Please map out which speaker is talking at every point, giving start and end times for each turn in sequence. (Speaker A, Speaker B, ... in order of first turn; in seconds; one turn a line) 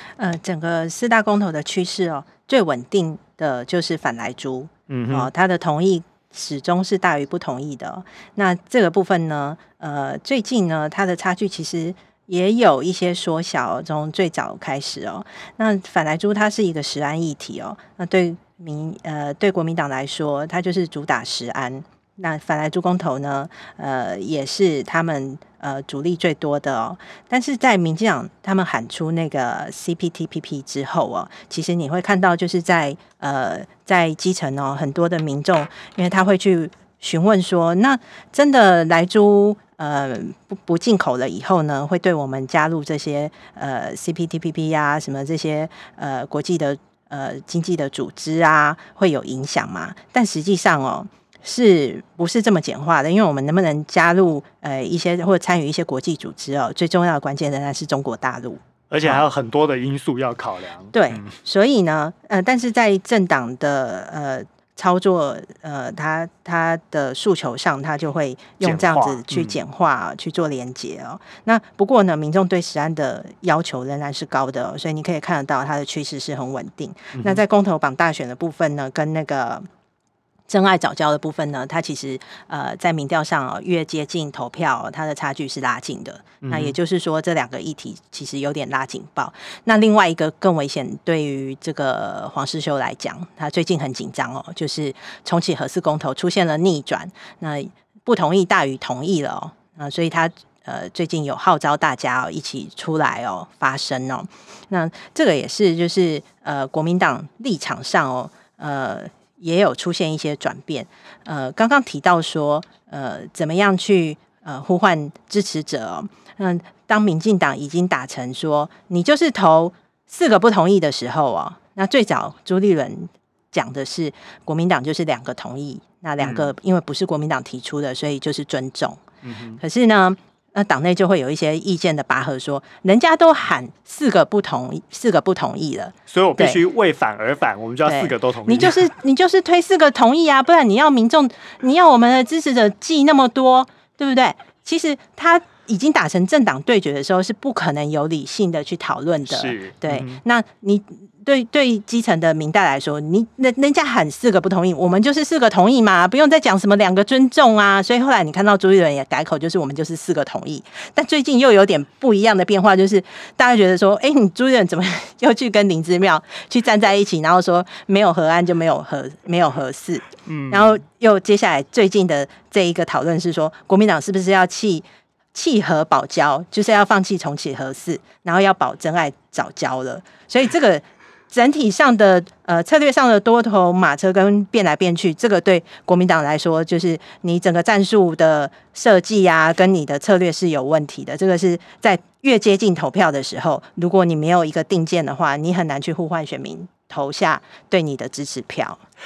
Speaker A: 0.2-59.2
Speaker B: 4.9-5.3
Speaker B: 58.9-61.3
Speaker A: 60.9-79.7
Speaker B: 68.6-69.6
Speaker B: 77.1-77.4
Speaker A: 80.5-129.0
Speaker B: 86.4-86.8
Speaker B: 126.2-126.5
Speaker B: 129.2-129.6
Speaker A: 129.6-136.6
Speaker B: 136.1-138.9
Speaker A: 137.8-198.8
Speaker B: 149.3-150.2
Speaker B: 170.2-170.8